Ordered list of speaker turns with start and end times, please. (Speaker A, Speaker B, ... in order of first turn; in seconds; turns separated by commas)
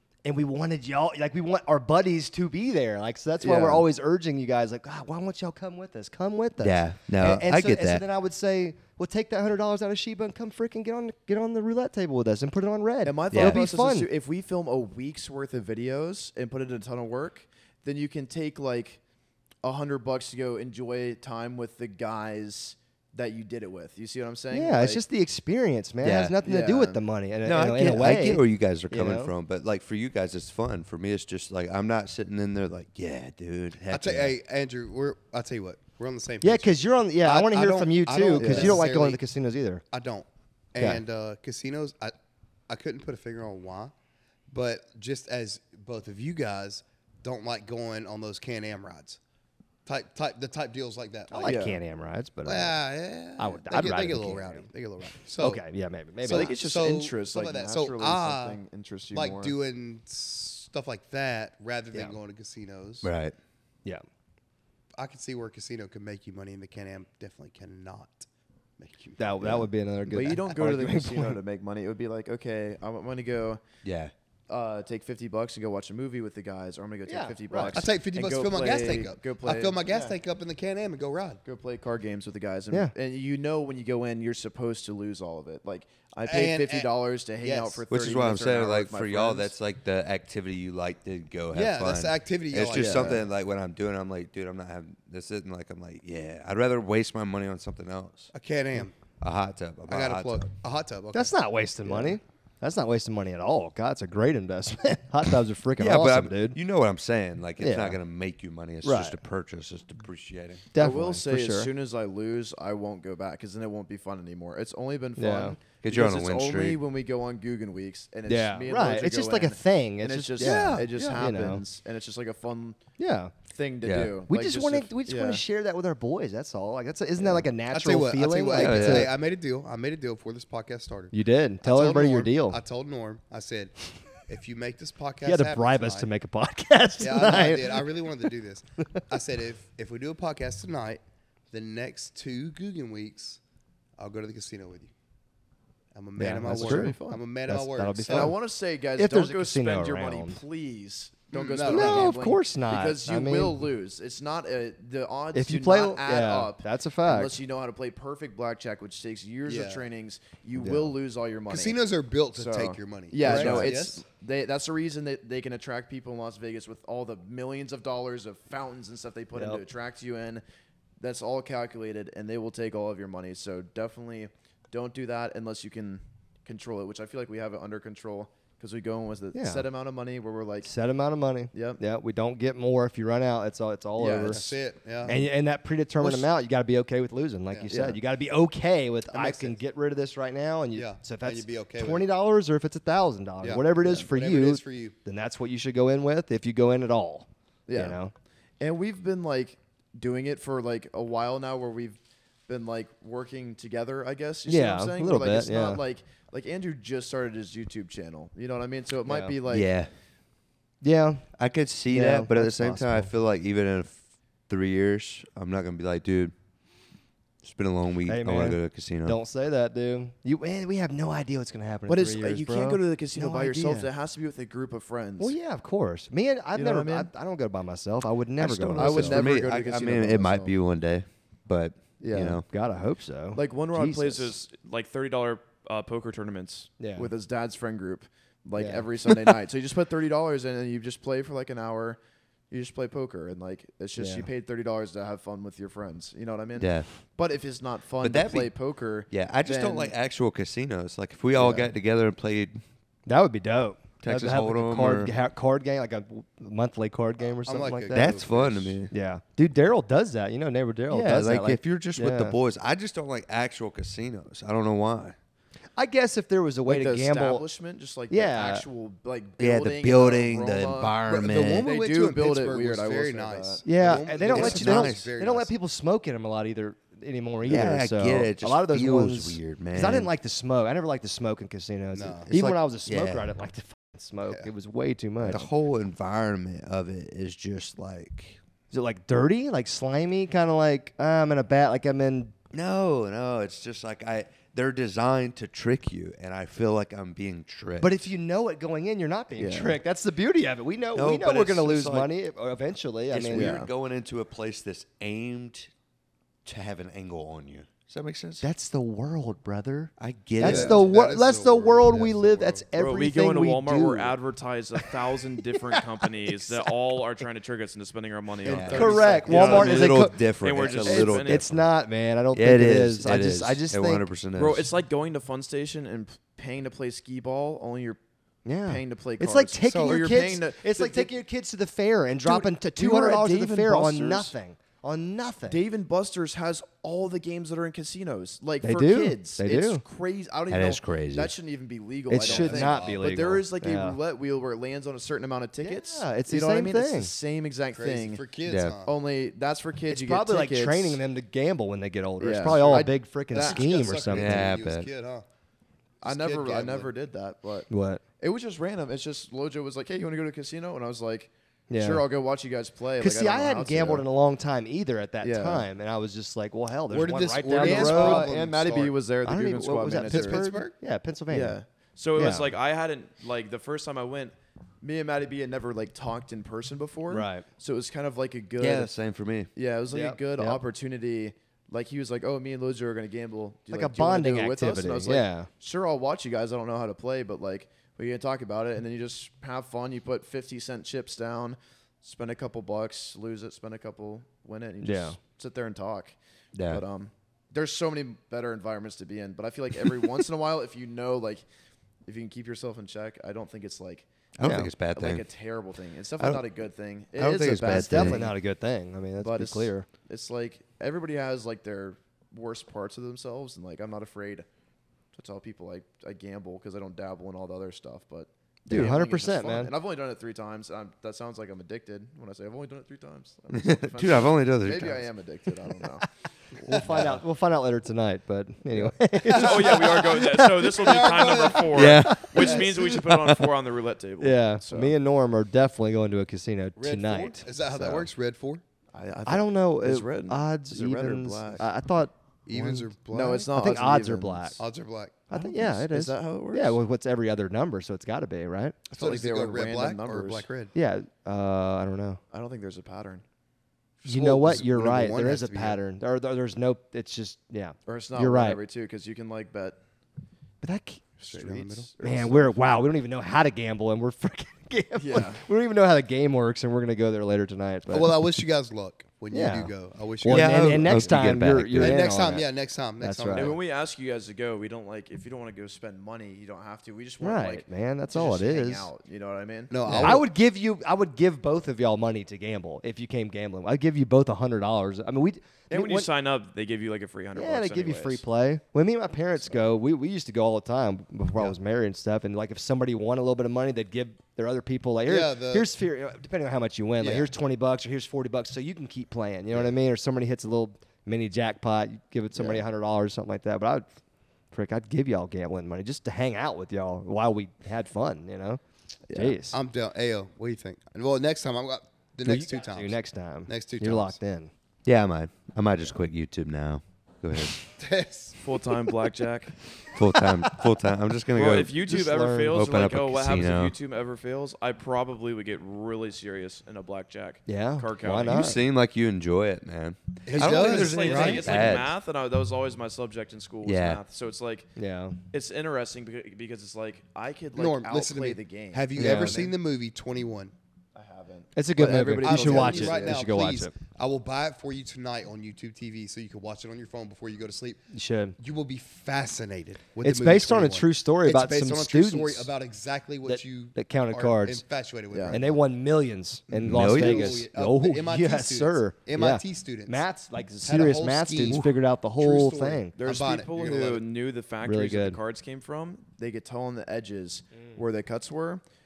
Speaker A: 0.2-14.1, Speaker B: 3.4-3.9, Speaker C: 6.6-8.0, Speaker B: 13.0-19.0, Speaker C: 13.3-13.6, Speaker B: 19.6-25.0, Speaker A: 24.5-29.3, Speaker C: 26.0-26.4, Speaker B: 26.4-27.0, Speaker C: 27.4-34.3, Speaker D: 33.9-39.2, Speaker A: 36.4-39.8, Speaker B: 38.4-38.8, Speaker D: 39.9-42.1, Speaker D: 42.7-43.9, Speaker D: 44.5-49.2, Speaker D: 49.9-51.6, Speaker A: 51.3-52.8, Speaker B: 51.4-51.8, Speaker D: 52.5-55.6, Speaker A: 53.4-54.7, Speaker A: 55.4-56.5, Speaker D: 56.2-58.6, Speaker B: 56.2-59.5, Speaker D: 59.1-63.1, Speaker C: 63.0-63.4, Speaker D: 65.0-68.3, Speaker D: 68.8-69.5, Speaker A: 69.2-71.4, Speaker B: 70.1-73.6, Speaker C: 73.8-74.1, Speaker B: 74.5-80.2, Speaker A: 77.1-77.8, Speaker D: 77.7-81.4, Speaker B: 81.5-89.5, Speaker D: 86.3-87.8, Speaker C: 87.9-98.3, Speaker D: 91.5-93.2, Speaker B: 92.6-93.2, Speaker D: 98.3-99.0, Speaker C: 99.2-100.5, Speaker D: 99.9-101.3, Speaker A: 101.1-106.6, Speaker C: 105.8-110.7, Speaker A: 107.6-108.0, Speaker A: 108.8-109.2, Speaker A: 110.7-111.7, Speaker B: 110.8-122.8, Speaker A: 115.2-115.6, Speaker C: 115.8-116.8, Speaker A: 118.3-121.6, Speaker D: 120.4-121.2, Speaker A: 123.0-123.3, Speaker B: 123.5-125.4, Speaker C: 123.8-124.2, Speaker A: 124.3-129.1, Speaker D: 127.7-136.1, Speaker C: 128.6-129.1, Speaker A: 131.1-132.6, Speaker A: 135.2-138.1, Speaker D: 137.0-143.4, Speaker D: 144.0-144.9, Speaker D: 145.9-148.3, Speaker A: 146.2-148.4, Speaker B: 146.4-147.2, Speaker B: 148.1-161.8, Speaker A: 149.0-150.4, Speaker D: 151.3-152.1, Speaker A: 151.7-153.6, Speaker A: 155.3-157.3, Speaker D: 159.5-159.8, Speaker A: 160.6-160.9, Speaker D: 161.5-164.0, Speaker B: 162.3-170.4, Speaker A: 163.2-163.7, Speaker A: 169.3-169.6, Speaker B: 171.0-180.7, Speaker A: 179.3-179.7, Speaker A: 180.6-184.4, Speaker B: 181.5-181.8, Speaker B: 184.0-184.6, Speaker D: 184.3-185.2, Speaker A: 185.1-198.1, Speaker D: 186.0-186.3, Speaker B: 187.7-188.0, Speaker D: 189.1-189.6, Speaker D: 190.7-192.1, Speaker D: 193.4-195.0, Speaker B: 197.7-198.0, Speaker B: 198.6-209.7, Speaker A: 204.5-205.8, Speaker A: 209.1-209.3, Speaker C: 209.5-209.9, Speaker A: 210.8-211.3, Speaker C: 211.4-216.3, Speaker A: 211.9-213.1, Speaker C: 217.4-219.2, Speaker A: 218.1-223.9, Speaker B: 221.9-225.3, Speaker A: 225.2-229.2, Speaker B: 226.6-227.1, Speaker C: 228.4-232.4, Speaker B: 228.8-230.5, Speaker B: 232.0-232.4, Speaker A: 232.5-234.3, Speaker B: 233.3-234.3, Speaker E: 233.8-236.7, Speaker A: 236.8-237.1, Speaker B: 237.0-242.0, Speaker A: 238.6-238.9, Speaker B: 242.5-249.9, Speaker A: 244.0-244.3, Speaker C: 246.6-246.9, Speaker C: 248.0-248.5, Speaker C: 249.1-252.6, Speaker B: 251.3-251.7, Speaker A: 253.1-258.2, Speaker C: 254.0-255.1, Speaker D: 257.4-258.8, Speaker C: 257.9-258.9, Speaker A: 258.9-262.4, Speaker C: 260.9-265.2, Speaker A: 265.8-267.4, Speaker B: 266.7-273.7, Speaker A: 268.1-268.6, Speaker C: 269.4-271.7, Speaker D: 271.1-275.5, Speaker A: 273.6-285.4, Speaker C: 274.3-275.1, Speaker C: 277.5-280.1, Speaker D: 281.9-282.3, Speaker C: 282.3-283.3, Speaker C: 285.2-288.4, Speaker A: 288.7-292.3, Speaker C: 292.5-298.0, Speaker A: 297.8-303.6, Speaker B: 299.4-299.8, Speaker C: 300.9-302.1, Speaker C: 303.1-305.7, Speaker B: 303.3-303.7, Speaker C: 306.4-308.4, Speaker A: 308.4-314.2, Speaker C: 310.0-310.9, Speaker D: 310.4-312.7, Speaker E: 312.7-321.5, Speaker A: 315.5-316.7, Speaker C: 318.4-321.5, Speaker D: 318.4-319.1, Speaker A: 318.7-320.2, Speaker A: 320.8-324.0, Speaker C: 322.3-324.7, Speaker E: 324.4-325.1, Speaker B: 325.1-328.0, Speaker A: 328.5-335.6, Speaker B: 328.7-331.1, Speaker B: 332.2-334.3, Speaker B: 335.5-351.0, Speaker A: 338.6-339.8, Speaker C: 340.5-341.3, Speaker A: 342.1-344.0, Speaker D: 342.2-343.0, Speaker A: 345.6-347.1, Speaker D: 347.7-348.9, Speaker C: 348.5-348.8, Speaker A: 349.9-354.5, Speaker B: 352.2-353.9, Speaker D: 353.3-355.2, Speaker C: 354.1-354.9, Speaker D: 356.0-356.9, Speaker B: 356.0-364.1, Speaker A: 357.7-358.0, Speaker A: 361.7-362.0, Speaker A: 363.0-368.3, Speaker B: 365.2-365.6, Speaker D: 366.9-368.9, Speaker B: 367.5-370.5, Speaker A: 369.2-371.6, Speaker D: 370.1-370.7, Speaker B: 371.3-371.7, Speaker E: 372.0-374.4, Speaker A: 372.2-372.5, Speaker B: 374.8-378.9, Speaker A: 377.1-377.4, Speaker C: 378.6-379.5, Speaker B: 379.6-396.1, Speaker A: 379.9-380.6, Speaker A: 383.7-385.5, Speaker A: 394.8-395.2, Speaker C: 396.6-396.8, Speaker B: 396.7-401.4, Speaker B: 402.1-404.1, Speaker C: 404.4-405.2, Speaker A: 404.4-404.7, Speaker B: 404.9-408.3, Speaker C: 406.2-406.4, Speaker C: 407.2-408.3, Speaker A: 407.7-409.9, Speaker B: 409.2-414.5, Speaker B: 415.1-426.1, Speaker A: 418.7-419.7, Speaker C: 423.5-425.1, Speaker A: 426.6-430.8, Speaker B: 426.7-427.1, Speaker E: 429.3-434.3, Speaker D: 430.7-431.9, Speaker C: 431.7-433.4, Speaker A: 432.0-432.5, Speaker B: 434.2-434.9, Speaker A: 434.2-437.5, Speaker D: 436.8-438.6, Speaker B: 437.8-438.1, Speaker B: 438.9-441.7, Speaker A: 439.3-444.6, Speaker D: 442.5-443.4, Speaker B: 443.1-444.6, Speaker D: 444.6-445.2, Speaker A: 445.3-448.8, Speaker B: 445.3-446.8, Speaker B: 448.9-450.5, Speaker D: 448.9-450.7, Speaker A: 450.8-452.2, Speaker B: 452.3-453.2, Speaker D: 454.0-455.8, Speaker A: 454.1-458.6, Speaker B: 457.9-459.8, Speaker A: 460.6-461.0, Speaker B: 461.2-462.5, Speaker D: 461.3-461.9, Speaker A: 462.0-468.2, Speaker B: 465.0-465.4, Speaker D: 467.9-471.1, Speaker A: 469.3-472.5, Speaker C: 470.3-472.1, Speaker D: 471.8-473.6, Speaker A: 473.0-473.6, Speaker E: 473.3-473.9, Speaker B: 473.5-480.2, Speaker A: 477.2-478.9, Speaker D: 479.7-480.3, Speaker A: 479.9-486.1, Speaker E: 485.7-488.2, Speaker A: 487.3-503.9, Speaker D: 495.1-495.7, Speaker D: 497.0-497.3, Speaker B: 502.4-502.6, Speaker A: 504.5-508.6, Speaker B: 509.1-509.3, Speaker A: 509.1-509.6, Speaker D: 509.5-514.2, Speaker A: 512.2-514.5, Speaker C: 514.9-517.6, Speaker D: 517.8-518.4, Speaker E: 518.4-519.5, Speaker C: 519.9-521.9, Speaker E: 521.3-528.6, Speaker A: 521.8-522.7, Speaker C: 522.5-523.8, Speaker A: 527.5-528.6, Speaker C: 528.3-532.0, Speaker D: 530.3-531.7, Speaker E: 530.3-534.7, Speaker C: 533.6-534.0, Speaker A: 534.8-535.2, Speaker E: 535.3-537.1, Speaker B: 537.0-539.5, Speaker D: 537.6-540.5, Speaker A: 539.0-539.4, Speaker B: 541.0-543.3, Speaker A: 541.6-543.7, Speaker D: 542.2-547.8, Speaker A: 547.9-548.4, Speaker D: 548.4-555.6, Speaker A: 550.0-552.5, Speaker A: 553.2-554.6, Speaker B: 555.1-555.4, Speaker A: 555.3-562.9, Speaker D: 556.5-560.0, Speaker C: 556.7-557.4, Speaker D: 560.6-564.0, Speaker B: 563.0-563.8, Speaker E: 563.0-566.0, Speaker A: 564.6-565.2, Speaker B: 566.0-568.6